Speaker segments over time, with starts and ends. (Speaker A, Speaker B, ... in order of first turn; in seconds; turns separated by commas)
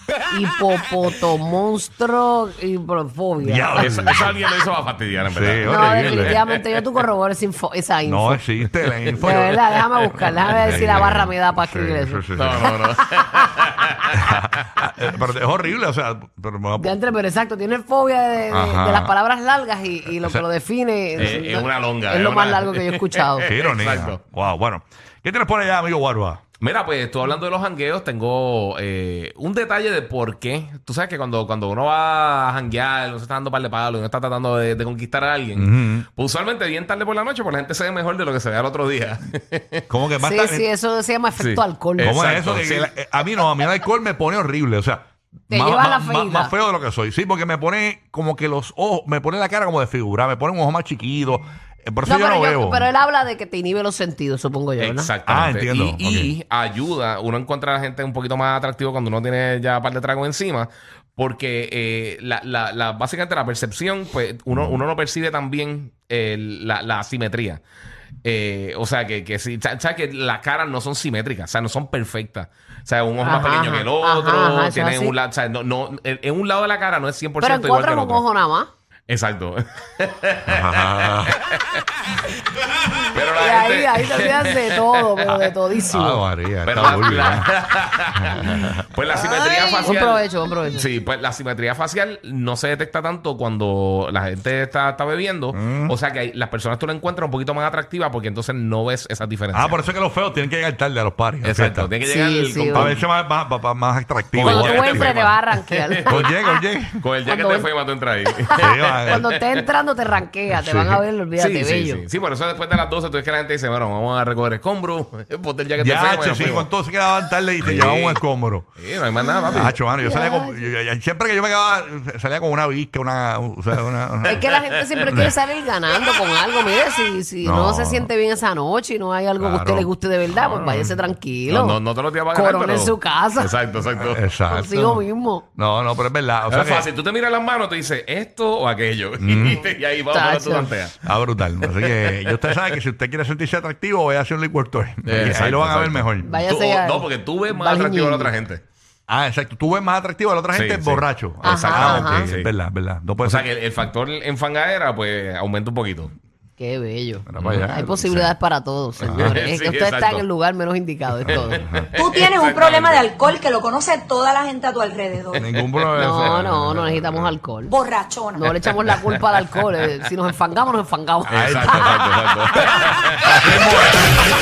Speaker A: 0.3-4.0, Speaker B: 3.4-4.3, Speaker C: 3.8-6.5, Speaker B: 5.3-6.4, Speaker A: 5.6-8.4, Speaker B: 8.1-12.8, Speaker A: 9.2-13.3, Speaker C: 12.3-13.8, Speaker B: 14.1-17.0, Speaker A: 16.8-23.5, Speaker B: 18.5-19.1, Speaker B: 20.2-20.4, Speaker B: 21.1-21.4, Speaker C: 21.2-24.2, Speaker B: 23.4-26.4, Speaker C: 26.6-39.8, Speaker B: 35.5-36.1, Speaker B: 39.9-40.7, Speaker A: 40.2-42.2, Speaker C: 41.4-43.5, Speaker B: 42.0-52.9, Speaker A: 45.5-46.5, Speaker A: 52.1-55.1, Speaker C: 54.8-67.6, Speaker B: 55.2-56.3, Speaker C: 68.2-78.2, Speaker A: 73.2-75.2, Speaker A: 77.4-78.7, Speaker C: 79.1-81.8, Speaker B: 80.5-81.3, Speaker C: 83.1-85.5, Speaker A: 83.3-86.2, Speaker B: 85.9-87.5, Speaker C: 86.7-99.8, Speaker B: 88.1-88.8, Speaker A: 89.1-90.9, Speaker B: 95.5-95.9, Speaker B: 99.5-101.9, Speaker C: 101.4-103.1, Speaker A: 102.1-103.0, Speaker B: 102.7-105.2, Speaker C: 104.3-105.4, Speaker A: 104.4-106.3, Speaker C: 105.9-106.3, Speaker B: 106.1-107.0, Speaker C: 107.0-109.7, Speaker A: 107.2-107.7, Speaker A: 108.4-112.0, Speaker B: 108.6-109.3, Speaker B: 110.5-111.0, Speaker C: 111.4-116.7, Speaker B: 115.8-118.7, Speaker C: 117.6-118.2, Speaker C: 118.8-119.8, Speaker A: 119.2-120.7, Speaker B: 119.5-124.4, Speaker A: 124.3-131.8, Speaker B: 125.0-125.3, Speaker B: 127.4-128.1, Speaker B: 129.4-131.0, Speaker C: 131.5-134.2, Speaker A: 132.3-133.5, Speaker B: 133.9-136.9, Speaker A: 134.5-135.4, Speaker C: 136.5-141.1, Speaker B: 139.2-139.7, Speaker A: 140.1-140.7, Speaker B: 141.0-146.3, Speaker C: 141.6-142.5, Speaker C: 145.1-148.6, Speaker A: 146.2-148.3, Speaker B: 149.1-153.5, Speaker C: 150.5-152.5, Speaker A: 151.4-152.3, Speaker C: 153.2-156.1, Speaker A: 156.6-161.6, Speaker B: 157.2-158.3, Speaker C: 157.4-157.7, Speaker B: 159.0-159.4, Speaker C: 159.1-160.2, Speaker B: 161.2-161.9, Speaker C: 161.3-163.1, Speaker D: 162.0-165.5, Speaker B: 165.4-167.1, Speaker C: 165.4-167.3, Speaker A: 166.0-167.7, Speaker D: 167.7-168.9, Speaker A: 168.3-171.9, Speaker C: 171.3-174.0, Speaker B: 171.3-174.0